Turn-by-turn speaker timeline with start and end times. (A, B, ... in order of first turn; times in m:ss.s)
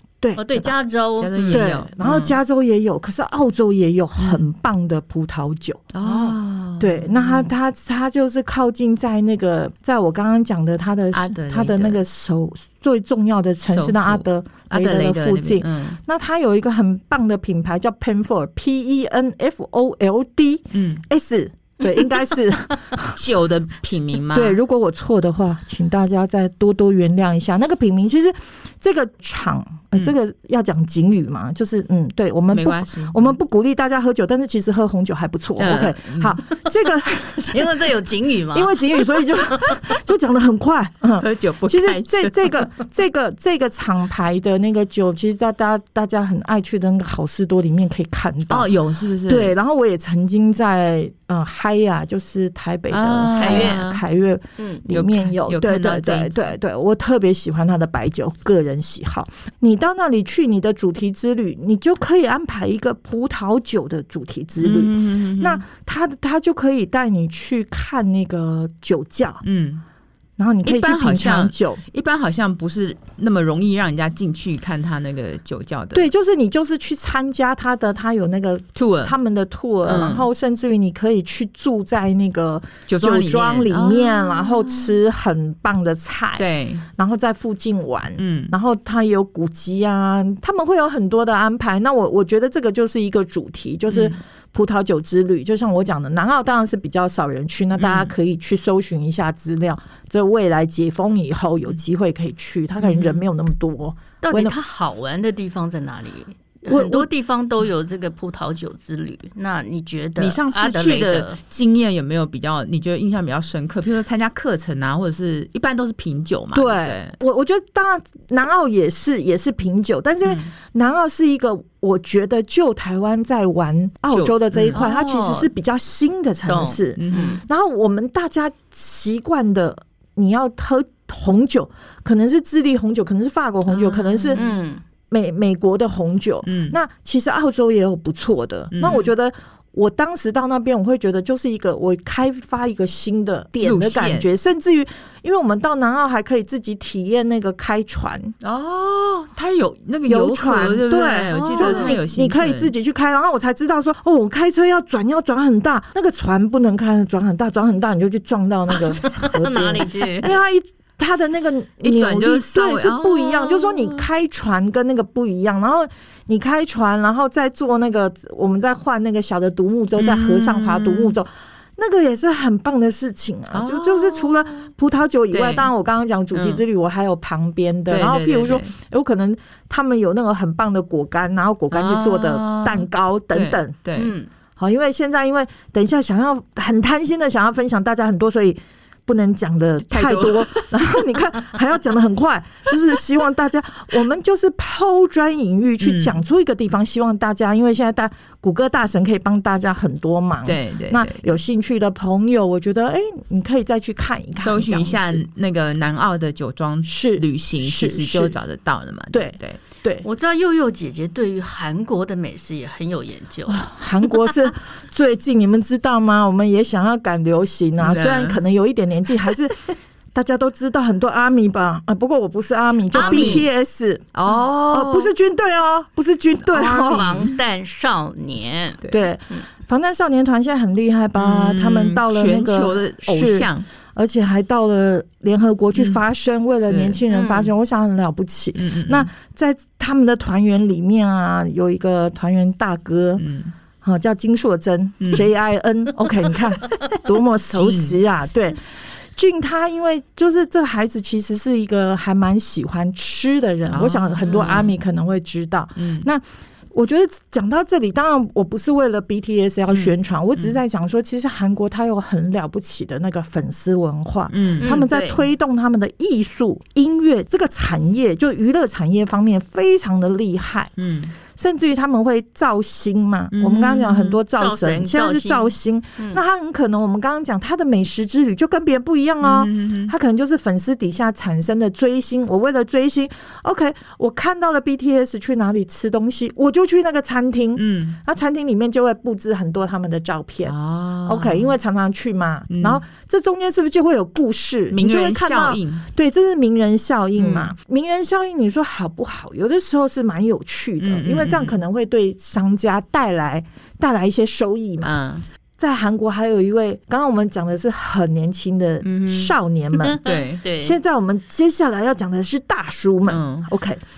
0:00.2-0:00.7 A
0:00.4-0:01.7 B
0:01.2-0:02.4 C
0:01.5-0:05.8 A
0:04.2-0:04.5 C
0:05.9-0:07.5 C
0:06.0-0:06.4 B
0:06.8-0:23.2 A
0:11.1-0:12.0 C
0:13.7-0:16.0 C
0:20.7-0:21.0 C
0:23.2-0:24.6 C
0:24.3-0:37.8 A
0:32.5-0:33.4 C
0:35.6-0:36.4 C
0:37.5-0:39.7 B
0:38.5-0:48.7 A
0:41.2-0:42.7 C
0:48.5-0:49.5 C
0:49.2-1:09.4 A
0:52.9-0:54.0 C
0:53.3-0:53.8 B
0:54.6-0:54.8 B
0:54.9-0:56.5 C
1:04.6-1:05.6 C
1:09.4-1:09.8 C
1:10.4-1:11.8 A
1:10.6-1:16.1 C
1:15.9-1:44.6 A
1:18.8-1:19.2 C
1:19.8-1:20.3 C
1:22.9-1:25.0 C
1:26.4-1:26.8 C
1:28.2-1:28.5 C
1:33.9-1:34.2 C
1:37.8-1:38.1 C
1:44.2-1:51.4 B
1:46.7-1:47.1 A
1:50.2-1:57.2 C
1:56.5-2:14.4 A
2:00.2-2:00.5 C
2:04.1-2:04.8 C
2:04.7-2:05.5 B
2:06.4-2:07.4 B
2:07.0-2:07.4 C
2:13.7-2:14.5 C
2:14.4-2:14.8 B
2:15.1-2:28.4 A
2:16.4-2:16.8 C
2:18.7-2:19.1 C
2:23.6-2:24.3 C
2:28.4-2:32.7 C
2:30.1-3:03.8 A
2:31.3-2:32.0 B
2:38.8-2:40.4 B
2:41.8-2:44.1 C
2:50.0-2:51.2 C
2:53.5-2:54.7 C
2:55.3-2:55.7 C
2:56.3-2:56.6 C
2:57.9-2:58.7 C
3:01.7-3:04.1 C
3:04.0-3:04.3 B
3:04.6-3:25.2 A
3:09.8-3:11.0 C
3:15.8-3:16.2 C
3:20.4-3:21.4 C
3:24.4-3:29.6 C
3:26.9-3:28.4 A
3:29.1-3:30.1 A
3:30.0-3:33.6 B
3:33.4-3:44.1 A
3:37.8-3:38.4 C
3:42.9-3:43.5 C
3:42.9-3:43.4 B
3:44.1-3:45.1 C
3:44.7-3:47.2 A
3:46.5-3:49.4 B
3:46.9-3:47.4 C
3:48.9-4:03.2 A
3:51.2-3:53.7 C
3:55.8-3:56.0 C
3:56.6-3:57.0 C
3:57.1-3:57.5 B
3:58.6-3:59.1 C
4:03.2-4:03.5 C
4:03.8-4:30.7 A
4:05.0-4:05.3 C
4:07.5-4:08.0 C
4:13.7-4:14.7 C
4:14.3-4:14.6 B
4:15.8-4:16.1 C
4:19.7-4:20.6 C
4:24.3-4:24.7 C
4:24.6-4:25.3 B
4:30.8-4:31.1 C
4:31.3-5:04.9 A
4:33.3-4:34.2 C
4:34.3-4:36.2 B
4:39.2-4:39.9 C
4:47.6-4:48.0 C
4:50.4-4:51.5 C
4:52.5-4:52.8 C
4:54.7-4:55.8 C
4:57.2-4:57.5 C
5:00.8-5:01.6 C
5:04.8-5:05.2 C
5:05.6-5:10.0 A
5:08.8-5:09.3 C
5:09.8-5:10.8 B
5:10.0-5:10.4 C
5:10.6-5:13.8 A
5:13.1-5:13.5 C